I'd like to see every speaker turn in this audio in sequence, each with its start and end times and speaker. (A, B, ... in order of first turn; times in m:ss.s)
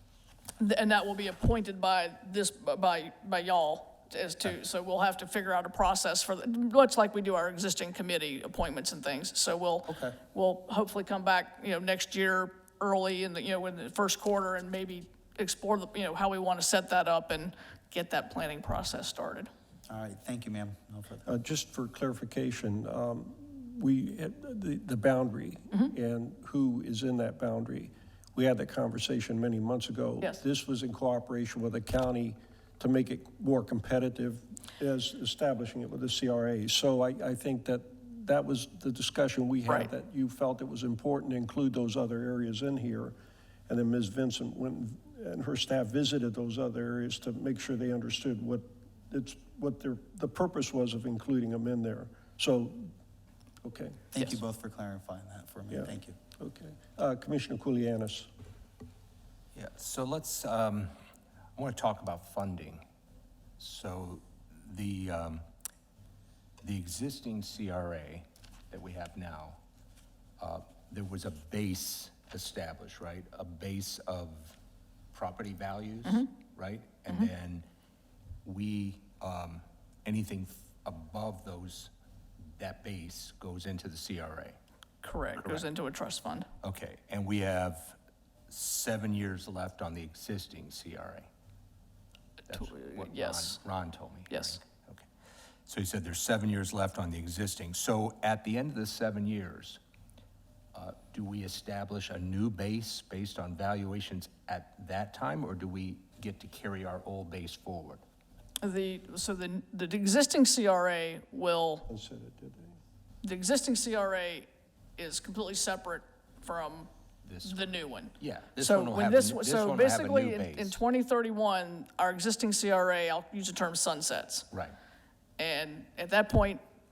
0:00.6-0:19.5 A
0:09.9-0:10.2 B
0:19.9-0:21.3 B
0:21.3-0:43.2 C
0:43.7-0:52.9 C
0:53.6-0:54.0 C
0:54.1-0:56.2 B
0:55.7-0:58.3 C
0:59.6-1:00.9 D
1:01.6-1:02.8 D
1:03.6-1:05.4 D
1:06.6-1:09.6 D
1:10.4-1:14.6 D
1:15.1-1:17.6 D
1:18.4-1:21.9 D
1:22.6-1:24.6 D
1:25.0-1:26.5 A
1:25.4-1:25.7 D
1:26.6-1:28.0 D
1:28.5-1:31.3 D
1:32.5-1:35.1 D
1:32.5-1:33.6 A
1:34.3-1:34.6 A
1:35.7-1:39.8 D
1:40.8-1:48.0 D
1:48.6-1:51.9 A
1:51.9-1:52.8 C
1:53.2-1:56.9 A
1:57.2-1:57.7 D
1:57.4-2:04.5 A
1:58.2-2:00.8 D
2:05.4-2:06.6 A